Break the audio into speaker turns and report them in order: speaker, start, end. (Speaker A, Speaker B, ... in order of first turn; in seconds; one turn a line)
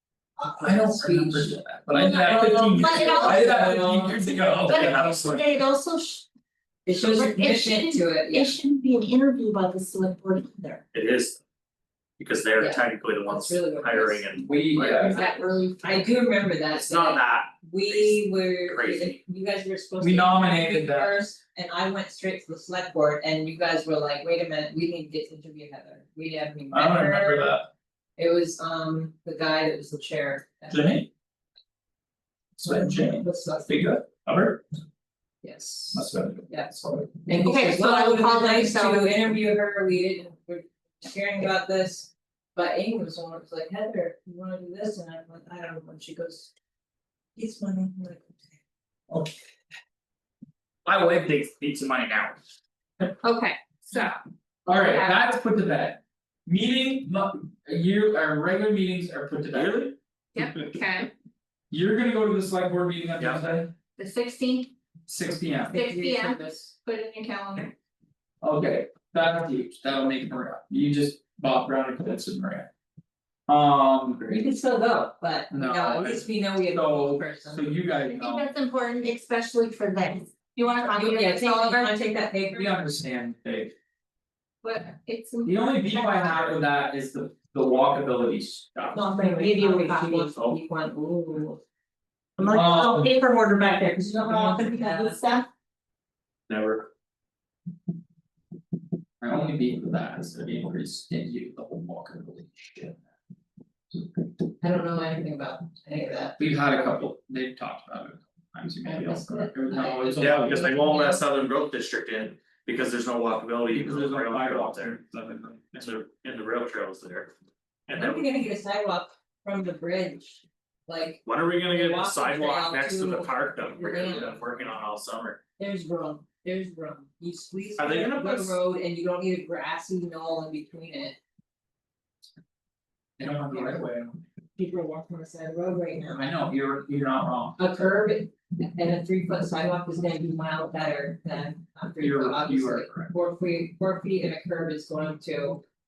Speaker A: 0.4-4.7
Speaker B: 0.6-5.6
Speaker C: 1.9-6.2
Speaker A: 6.8-8.6
Speaker C: 6.9-10.8
Speaker D: 10.9-11.4
Speaker D: 12.2-14.9
Speaker A: 12.6-14.2
Speaker B: 14.4-15.2
Speaker C: 14.8-16.1
Speaker A: 15.1-27.6
Speaker D: 16.7-19.2
Speaker B: 20.0-21.2
Speaker B: 26.7-27.7
Speaker A: 28.2-31.0
Speaker B: 30.7-31.1
Speaker B: 32.6-34.6
Speaker A: 32.6-33.8
Speaker A: 35.4-46.5
Speaker B: 35.9-37.1
Speaker C: 37.4-39.0
Speaker A: 47.4-48.6
Speaker B: 50.8-52.4
Speaker C: 53.2-55.1
Speaker B: 54.7-59.9
Speaker D: 59.5-59.9
Speaker C: 60.3-61.1
Speaker B: 61.7-63.7
Speaker C: 64.0-64.7
Speaker B: 65.1-65.7
Speaker A: 65.7-66.7
Speaker C: 65.7-67.7
Speaker B: 68.4-72.7
Speaker B: 73.5-74.4
Speaker A: 74.3-77.7
Speaker B: 75.5-78.5
Speaker C: 78.1-82.0
Speaker A: 80.8-82.7
Speaker B: 82.5-83.7
Speaker C: 84.6-86.5
Speaker B: 85.5-89.0
Speaker A: 88.9-91.6
Speaker C: 89.0-90.6
Speaker C: 92.4-95.5
Speaker B: 92.4-93.1
Speaker A: 93.9-95.2
Speaker D: 96.5-96.9
Speaker B: 99.2-103.0
Speaker A: 104.6-106.4
Speaker B: 106.4-110.6
Speaker A: 108.8-111.2
Speaker D: 110.2-115.0
Speaker B: 113.7-115.9
Speaker D: 115.8-117.3
Speaker D: 117.9-118.3
Speaker A: 117.9-124.6
Speaker D: 121.2-125.4
Speaker A: 125.6-131.2
Speaker D: 127.8-128.6
Speaker B: 133.2-134.2
Speaker A: 133.2-133.8
Speaker A: 134.6-136.3
Speaker B: 136.1-137.6
Speaker A: 137.6-145.6
Speaker B: 142.0-143.1